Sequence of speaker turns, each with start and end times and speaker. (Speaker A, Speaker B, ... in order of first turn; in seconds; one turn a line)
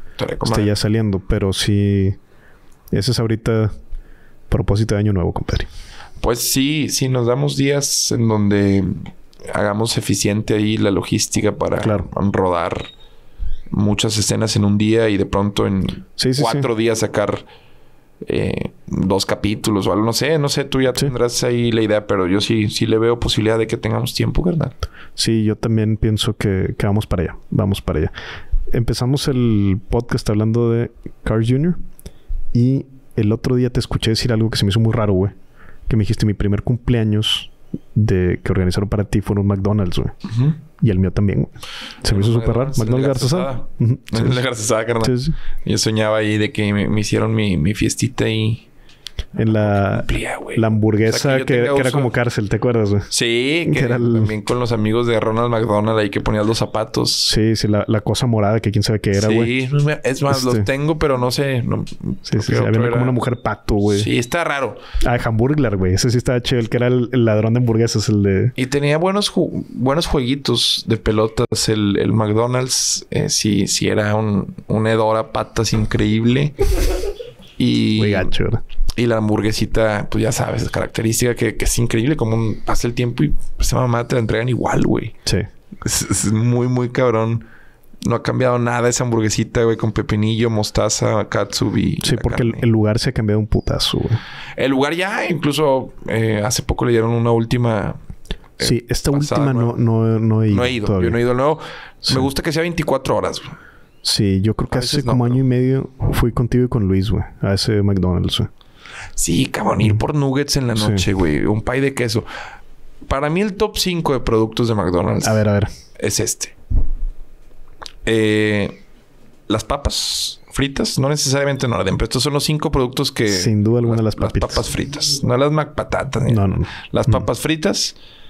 Speaker A: 0.2-0.7
Speaker B: 0.5-2.2
Speaker B: 2.9-3.7
Speaker B: 4.5-5.7
Speaker A: 6.2-12.9
Speaker B: 11.8-12.1
Speaker A: 13.7-17.4
Speaker B: 16.2-16.7
Speaker A: 18.2-24.8
Speaker B: 25.2-28.1
Speaker B: 28.7-31.8
Speaker B: 32.5-35.3
Speaker B: 35.9-40.1
Speaker B: 40.8-41.5
Speaker B: 42.0-44.4
Speaker A: 42.0-48.6
Speaker B: 45.0-45.4
Speaker B: 49.4-53.1
Speaker A: 49.5-52.1
Speaker A: 53.1-57.3
Speaker B: 53.7-54.3
Speaker B: 57.3-59.5
Speaker A: 59.1-63.2
Speaker B: 60.3-60.7
Speaker B: 62.3-64.1
Speaker A: 63.9-64.8
Speaker B: 65.0-68.5
Speaker A: 68.6-76.6
Speaker A: 77.6-78.3
Speaker B: 78.0-78.6
Speaker A: 79.0-85.2
Speaker A: 85.8-87.5
Speaker A: 88.0-92.7
Speaker B: 92.0-94.2
Speaker A: 94.6-98.0
Speaker A: 98.6-99.8
Speaker B: 98.6-101.2
Speaker A: 100.5-103.6
Speaker B: 104.0-108.5
Speaker A: 104.7-105.4
Speaker A: 109.2-112.3
Speaker B: 110.8-111.0
Speaker A: 113.1-115.4
Speaker B: 115.2-115.7
Speaker A: 116.0-116.6
Speaker A: 118.0-118.8
Speaker A: 119.5-128.0
Speaker B: 123.3-124.7
Speaker B: 126.3-127.3